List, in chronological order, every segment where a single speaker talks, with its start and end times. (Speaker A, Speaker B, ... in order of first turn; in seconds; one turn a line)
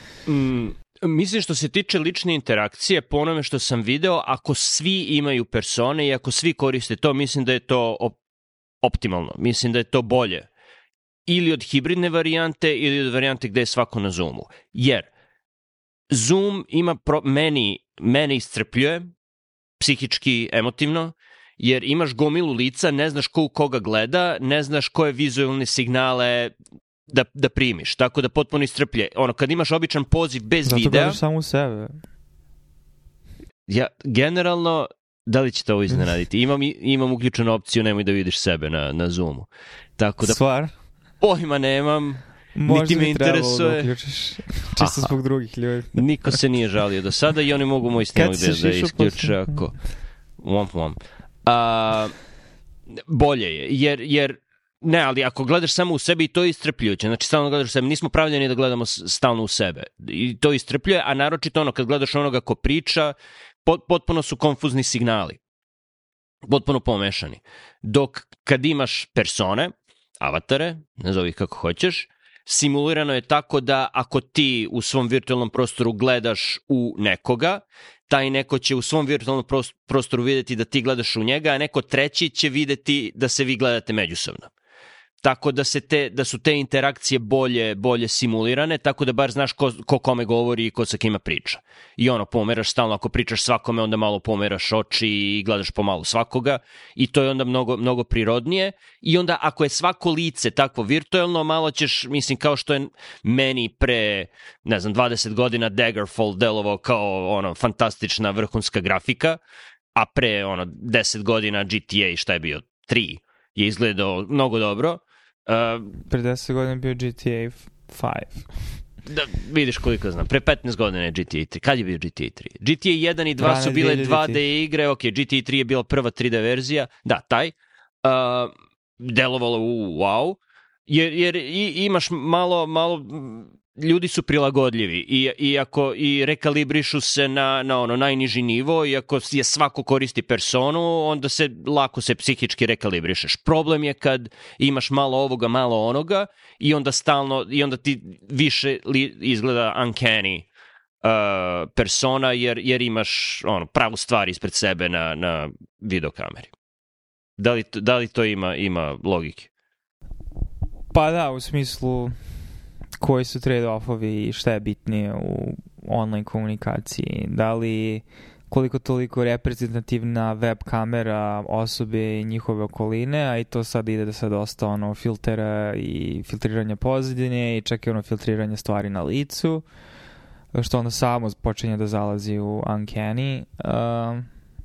Speaker A: 0.3-8.2
Speaker A: 8.8-10.5
Speaker A: 11.3-15.1
Speaker A: 16.1-19.1
Speaker A: 19.8-26.5
Speaker A: 27.1-31.2
Speaker B: 30.6-32.0
Speaker A: 33.7-40.4
Speaker B: 40.2-40.7
Speaker A: 41.2-43.9
Speaker B: 42.5-46.4
Speaker A: 44.8-45.1
Speaker A: 45.9-49.8
Speaker B: 48.1-49.6
Speaker A: 50.4-52.1
Speaker A: 53.1-65.4
Speaker A: 66.5-84.5
Speaker A: 85.2-109.4
Speaker A: 109.9-116.0
Speaker B: 116.1-118.5
Speaker A: 119.0-150.5
Speaker B: 123.4-124.4
Speaker A: 151.0-156.5
Speaker A: 157.4-159.5
Speaker B: 160.9-162.1
Speaker B: 163.0-179.6
Speaker B: 180.5-184.3